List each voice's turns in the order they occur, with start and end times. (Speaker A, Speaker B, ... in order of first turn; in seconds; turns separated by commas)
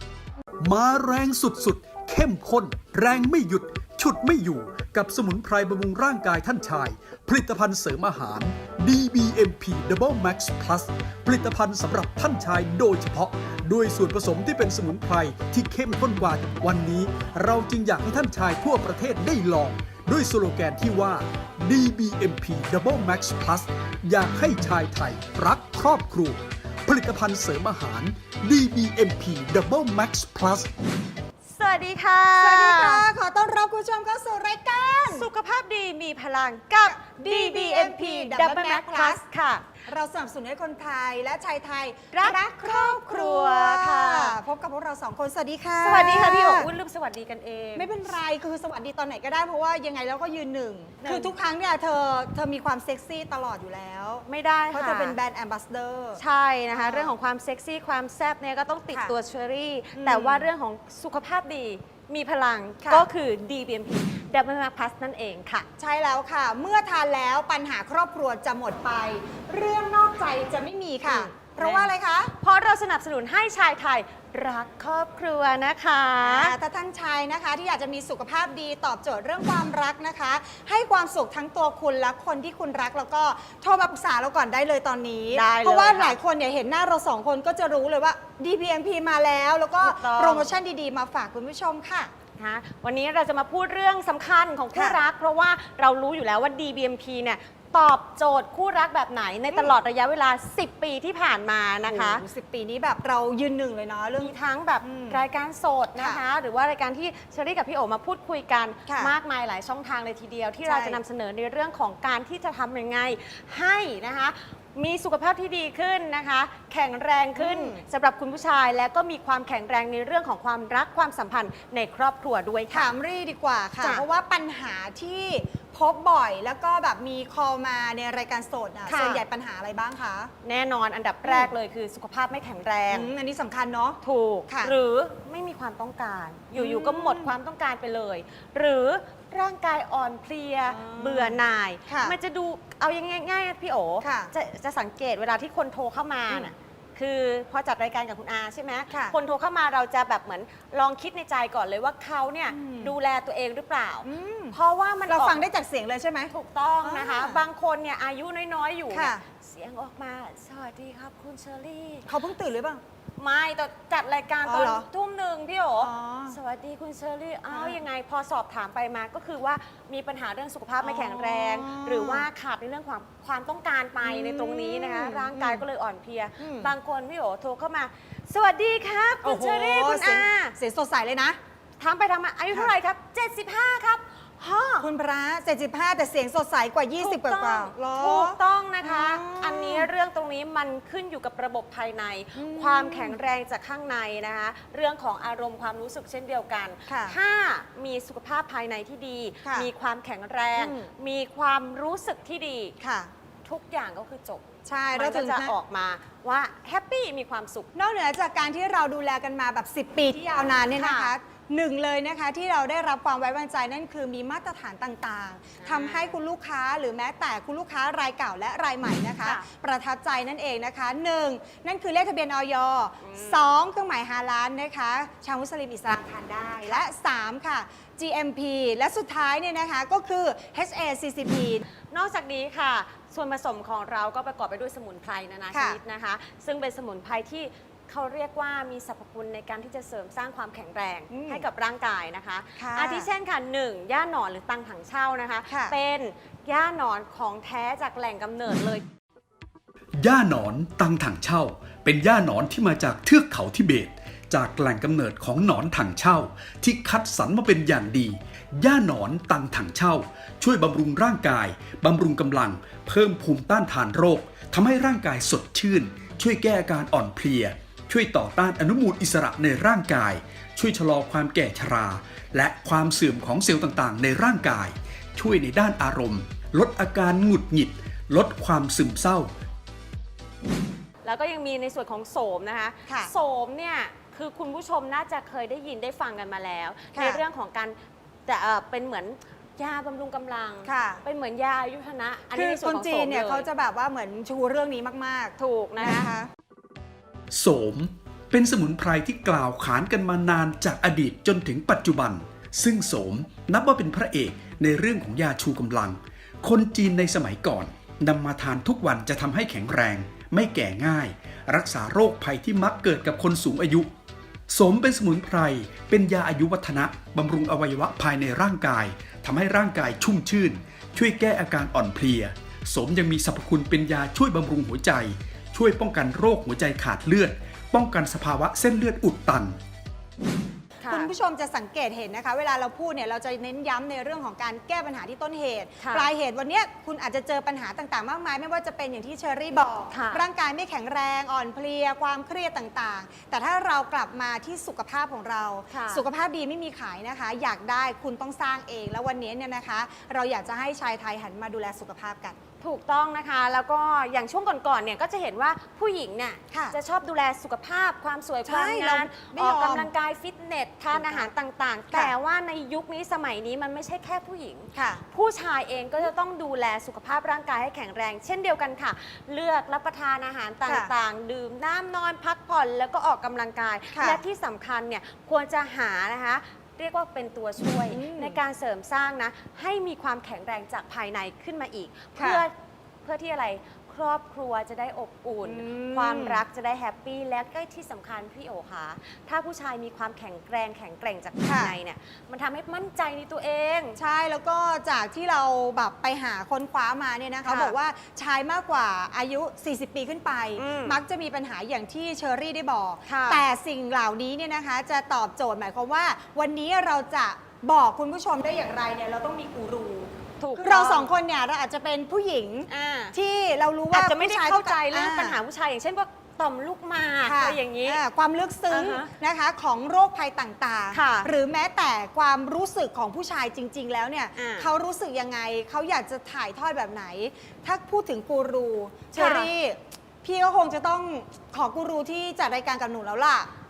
Speaker A: 0.6-30.7, Speaker B: 31.4-33.0, Speaker C: 32.4-35.2, Speaker B: 35.0-39.7, Speaker C: 36.8-39.2, Speaker C: 39.9-46.7, Speaker B: 42.1-44.4, Speaker B: 45.8-48.1, Speaker C: 47.8-57.1, Speaker B: 51.0-51.3, Speaker B: 54.2-55.2, Speaker B: 56.2-65.7, Speaker C: 59.9-60.5, Speaker C: 62.8-63.1, Speaker C: 65.8-72.3, Speaker B: 71.0-76.5, Speaker C: 76.2-92.1, Speaker B: 85.3-86.2, Speaker B: 89.8-90.6, Speaker B: 92.4-102.2, Speaker C: 94.7-95.0, Speaker C: 99.5-99.7, Speaker C: 101.8-105.2, Speaker B: 104.1-122.9, Speaker C: 106.0-106.2, Speaker C: 108.9-109.1, Speaker C: 110.6-111.0, Speaker C: 117.3-117.8, Speaker C: 122.7-130.3, Speaker B: 128.8-129.2, Speaker B: 130.4-133.1, Speaker C: 131.2-131.5, Speaker C: 132.9-134.7, Speaker B: 134.0-155.4, Speaker C: 136.5-137.3, Speaker C: 140.7-142.2, Speaker C: 144.0-144.3, Speaker C: 148.9-149.2, Speaker C: 152.5-152.9, Speaker C: 154.0-157.4, Speaker B: 156.3-162.1, Speaker C: 158.9-159.2, Speaker C: 162.1-162.8, Speaker B: 163.2-180.6, Speaker C: 164.4-164.9, Speaker C: 165.8-166.4, Speaker C: 167.5-167.8, Speaker C: 170.8-172.3, Speaker C: 174.0-175.6, Speaker C: 176.4-176.7, Speaker C: 179.2-181.4, Speaker B: 181.8-184.9, Speaker C: 184.8-189.9, Speaker B: 187.0-202.7, Speaker C: 192.3-193.2, Speaker C: 196.9-197.2, Speaker C: 199.4-199.7, Speaker C: 200.5-200.9, Speaker C: 202.8-203.1, Speaker B: 203.4-207.7, Speaker C: 204.7-205.5, Speaker C: 207.7-231.6, Speaker B: 210.7-211.1, Speaker B: 215.6-216.2, Speaker B: 219.2-219.5, Speaker B: 223.0-223.5, Speaker B: 231.9-248.8, Speaker C: 235.5-235.8, Speaker C: 241.1-241.4, Speaker C: 242.6-243.1, Speaker C: 245.5-245.7, Speaker A: 250.0-279.3, Speaker B: 281.0-293.5, Speaker C: 286.9-287.2, Speaker C: 290.6-291.0, Speaker C: 292.3-296.3, Speaker B: 295.4-296.1, Speaker A: 297.3-313.9, Speaker A: 314.5-329.6, Speaker B: 330.8-331.1, Speaker C: 330.9-352.4, Speaker B: 335.8-336.1, Speaker B: 339.9-340.2, Speaker B: 345.7-346.1, Speaker B: 352.6-394.0, Speaker C: 358.4-359.9, Speaker C: 360.9-361.3, Speaker C: 364.7-365.0, Speaker C: 370.6-370.9, Speaker C: 373.9-374.2, Speaker C: 377.9-378.4, Speaker C: 382.1-382.4, Speaker C: 385.4-386.4, Speaker C: 391.4-391.7, Speaker C: 393.9-415.4, Speaker B: 397.4-397.8, Speaker B: 400.6-401.0, Speaker B: 403.1-403.5, Speaker B: 410.4-411.1, Speaker B: 412.7-413.1, Speaker B: 413.9-418.0, Speaker C: 417.2-433.5, Speaker B: 418.7-419.1, Speaker B: 420.9-421.3, Speaker B: 424.3-424.7, Speaker B: 429.1-429.5